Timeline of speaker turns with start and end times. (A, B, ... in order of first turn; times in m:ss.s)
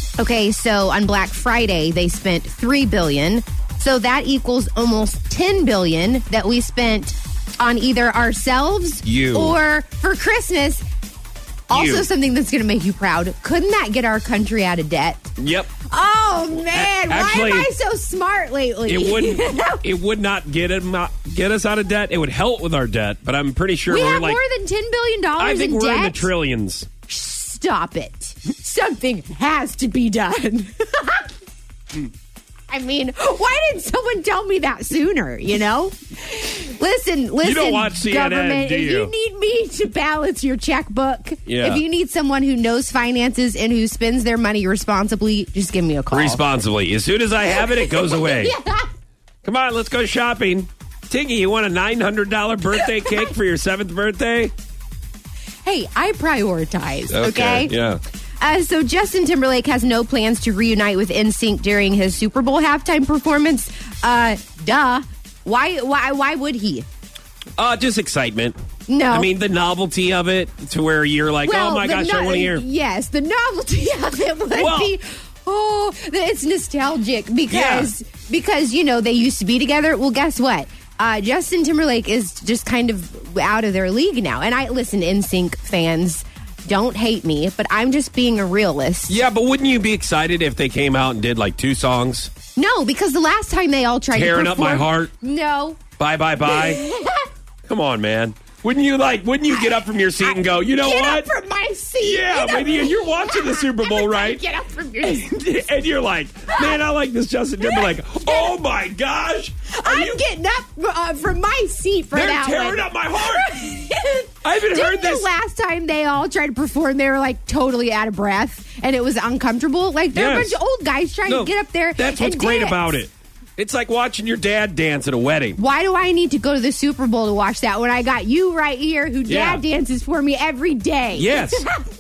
0:00.2-0:10.8 A
0:09.0-0:09.6 B
0:11.7-0:12.0 B
0:11.7-0:15.3 A
0:15.4-0:15.7 B
0:15.9-0:19.8 A
0:16.7-0:17.7 B
0:18.9-0:24.4 B
0:23.9-0:26.3 A
0:25.4-0:26.9 B
0:27.1-0:31.3 A
0:32.7-0:46.4 A
0:37.4-0:39.1 B
0:41.5-0:41.8 B
0:46.1-0:48.5 B
0:47.5-0:48.9 A
0:49.4-0:54.5 B
0:53.0-0:53.3 A
0:55.6-0:57.7 A
0:57.1-0:58.0 B
0:58.4-1:06.9 A
1:07.6-1:08.6 B
1:08.9-1:09.3 A
1:09.1-1:12.6 B
1:11.4-1:29.2 A
1:14.5-1:14.9 B
1:17.5-1:17.9 B
1:29.1-1:32.3 B
1:32.6-1:35.8 A
1:34.1-1:35.1 B
1:36.0-1:36.8 B
1:36.4-1:37.3 A
1:37.7-1:41.3 B
1:39.5-1:45.3 A
1:42.0-1:44.4 B
1:45.0-1:50.2 B
1:46.5-1:46.8 A
1:47.6-1:48.6 A
1:49.7-2:03.0 A
1:52.1-1:53.7 B
1:54.4-1:55.3 B
2:00.1-2:00.6 B
2:01.3-2:05.6 B
2:05.6-2:11.8 A
2:09.3-2:09.6 B
2:11.2-2:11.7 B